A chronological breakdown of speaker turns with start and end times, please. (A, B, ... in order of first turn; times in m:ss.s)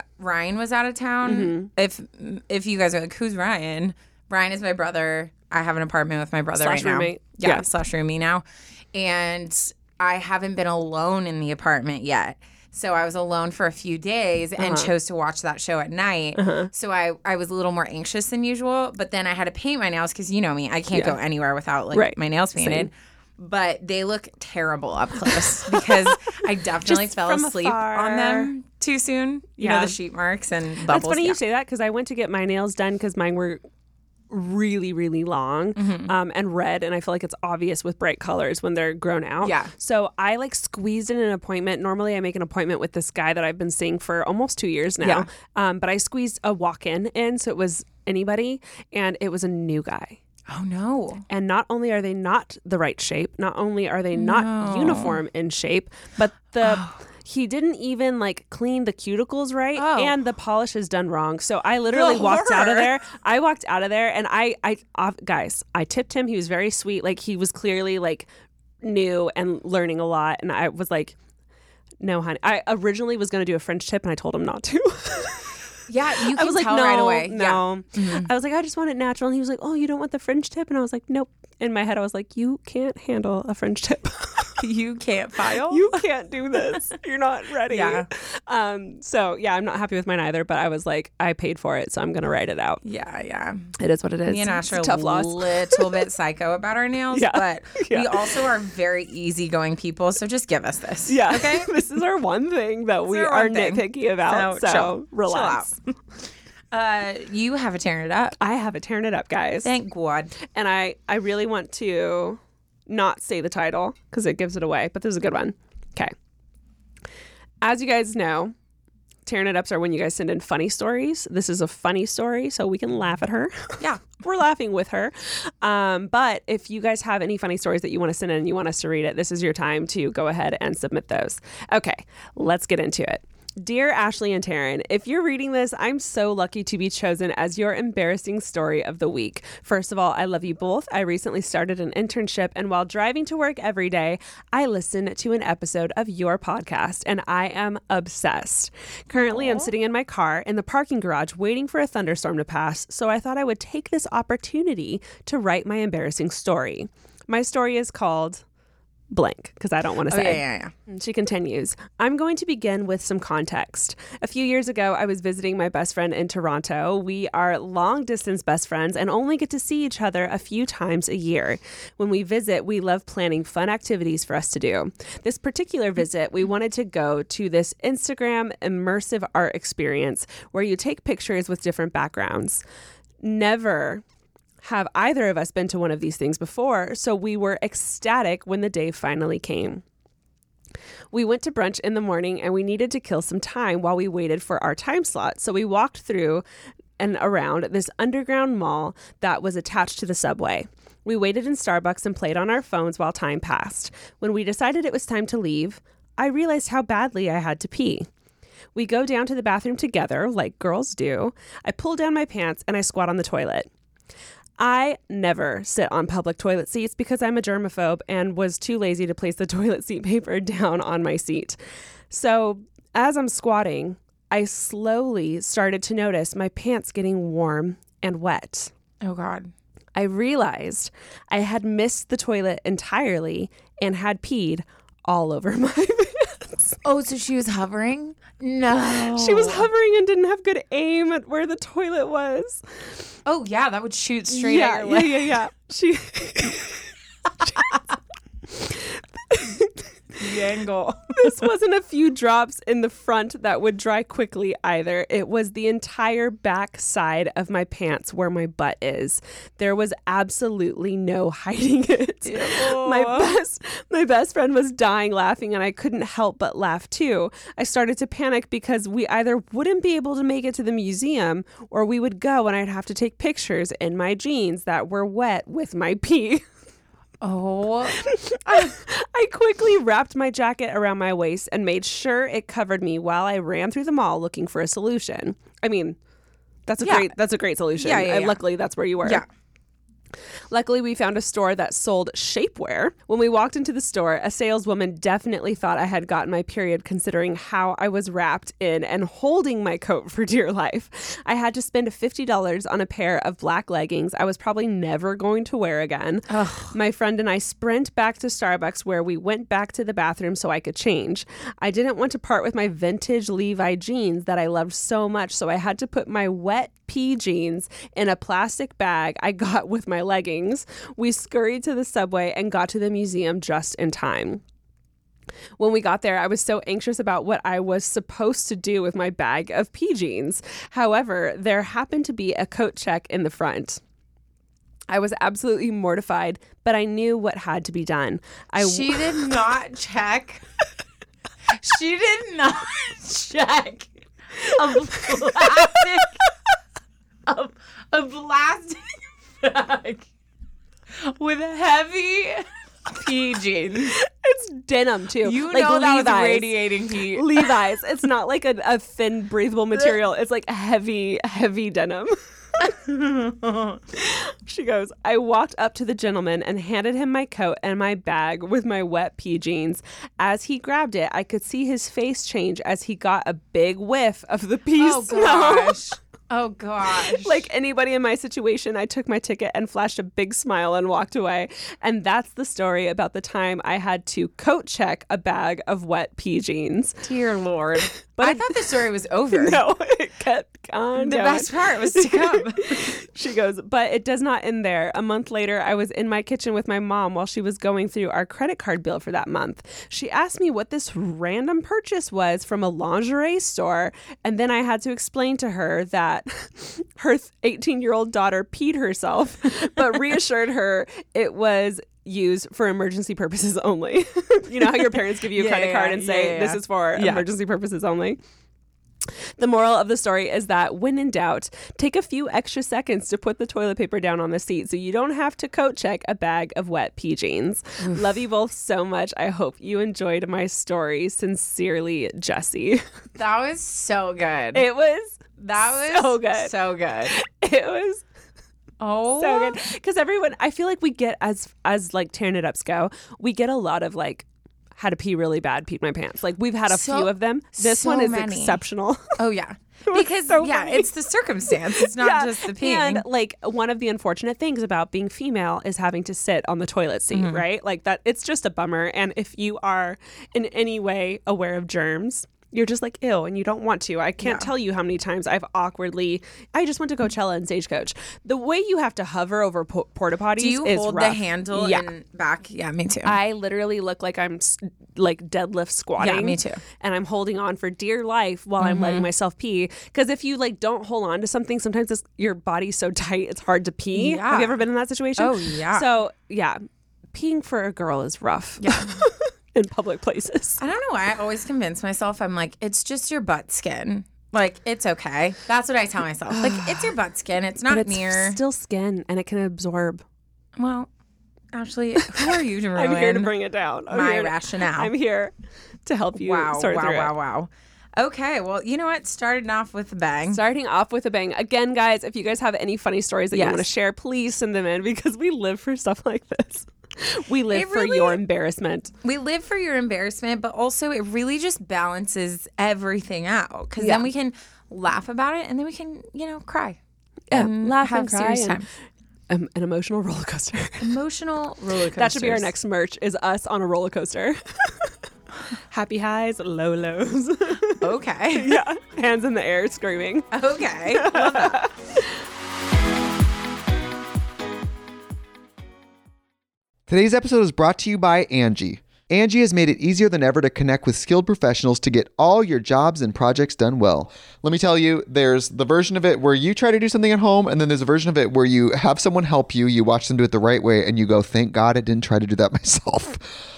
0:00.2-0:31.4 A
0:01.2-0:01.7 B
0:06.6-0:07.7 B
0:14.6-0:14.9 B
0:16.4-0:16.7 B
0:20.9-0:21.2 B
0:21.9-0:22.9 B
0:25.5-0:28.5 B
0:29.6-0:30.0 B
0:30.9-0:33.6 B
0:34.3-0:50.2 B
0:35.8-0:36.1 A
0:39.4-0:39.7 A
0:45.0-0:45.3 A
0:50.5-0:51.2 A
0:51.3-1:08.3 B
0:54.2-0:55.2 A
0:56.6-0:57.0 A
0:59.8-1:00.1 A
1:01.9-1:02.9 A
1:08.8-1:11.2 B
1:12.0-1:15.6 B
1:15.9-1:18.3 A
1:16.3-1:24.6 B
1:24.6-1:26.0 A
1:25.7-1:32.8 B
1:27.7-1:28.1 A
1:32.8-1:33.7 A
1:33.8-1:36.1 B
1:34.3-1:41.7 A
1:37.1-1:38.4 B
1:41.1-1:45.8 B
1:43.1-1:45.9 A
1:46.7-1:48.4 A
1:48.4-1:49.7 B
1:49.6-1:50.4 A
1:50.5-1:56.1 B
1:57.6-1:58.5 B
1:59.2-2:38.4 B
2:29.1-2:29.7 A
2:39.1-3:02.6 B
2:40.1-2:40.7 A
3:03.2-3:04.0 B
3:04.6-3:09.8 B
3:11.1-3:16.4 B
3:17.0-3:28.1 B
3:28.8-3:33.7 B
3:34.6-3:41.6 B
3:42.1-3:48.7 B
3:49.0-3:49.5 A
3:50.0-3:56.8 B
3:56.8-3:59.7 A
3:58.9-4:02.6 B
4:03.3-4:05.4 A
4:04.3-4:06.9 B
4:08.5-4:10.2 B
4:10.2-4:11.4 A
4:11.2-4:36.4 B
4:22.3-4:23.3 A
4:37.2-4:38.8 A
4:38.0-4:46.0 B
4:46.7-4:49.2 B
4:46.8-4:47.1 A
4:47.8-4:48.4 A
4:50.5-5:24.4 B
5:06.3-5:06.8 A
5:25.6-5:33.8 B
5:34.9-5:39.4 B
5:38.6-5:40.4 A
5:41.6-5:46.2 A
5:47.3-5:50.1 A
5:51.0-5:54.0 A
5:53.9-5:56.6 B
5:55.2-5:57.5 A
5:57.1-6:02.2 B
6:02.6-6:03.8 A
6:03.9-6:15.9 B
6:14.8-6:17.4 A
6:17.0-6:27.0 B
6:27.0-6:29.6 A
6:28.1-6:28.7 B
6:29.3-6:58.2 B
6:31.0-6:32.9 A
6:54.7-6:57.3 A
6:59.4-7:12.8 B
7:07.8-7:08.1 A
7:13.2-7:14.6 A
7:14.5-7:16.5 B
7:15.4-7:17.2 A
7:17.1-7:18.0 B
7:18.8-7:19.6 A
7:19.2-7:29.2 B
7:26.7-7:28.6 A
7:29.2-7:33.0 A
7:29.9-7:30.9 B
7:31.5-7:51.9 B
7:37.1-7:37.4 A
7:44.2-7:44.5 A
7:50.4-7:53.2 A
7:53.1-8:06.6 B
7:56.0-7:56.6 A
7:58.6-7:59.1 A
8:04.0-8:04.6 A
8:05.2-8:05.9 A
8:07.1-8:10.6 B
8:08.6-8:09.0 A
8:10.6-8:18.4 A
8:16.3-8:17.0 B
8:17.7-8:20.0 B
8:20.6-8:20.9 A
8:21.5-8:23.3 A
8:22.1-8:25.3 B
8:23.9-8:24.9 A
8:25.9-8:27.1 B
8:26.2-8:30.4 A
8:30.3-8:38.9 B
8:33.3-8:33.7 A
8:37.5-8:38.2 A
8:39.0-8:46.8 A
8:43.8-8:44.1 B
8:47.3-8:48.7 B
8:47.3-8:48.7 A
8:49.3-8:51.0 B
8:50.8-8:52.5 A
8:52.0-8:54.9 B
8:55.7-8:57.8 B
8:57.8-8:58.5 A
8:58.3-9:02.1 B
9:00.3-9:01.6 A
9:06.9-9:23.2 C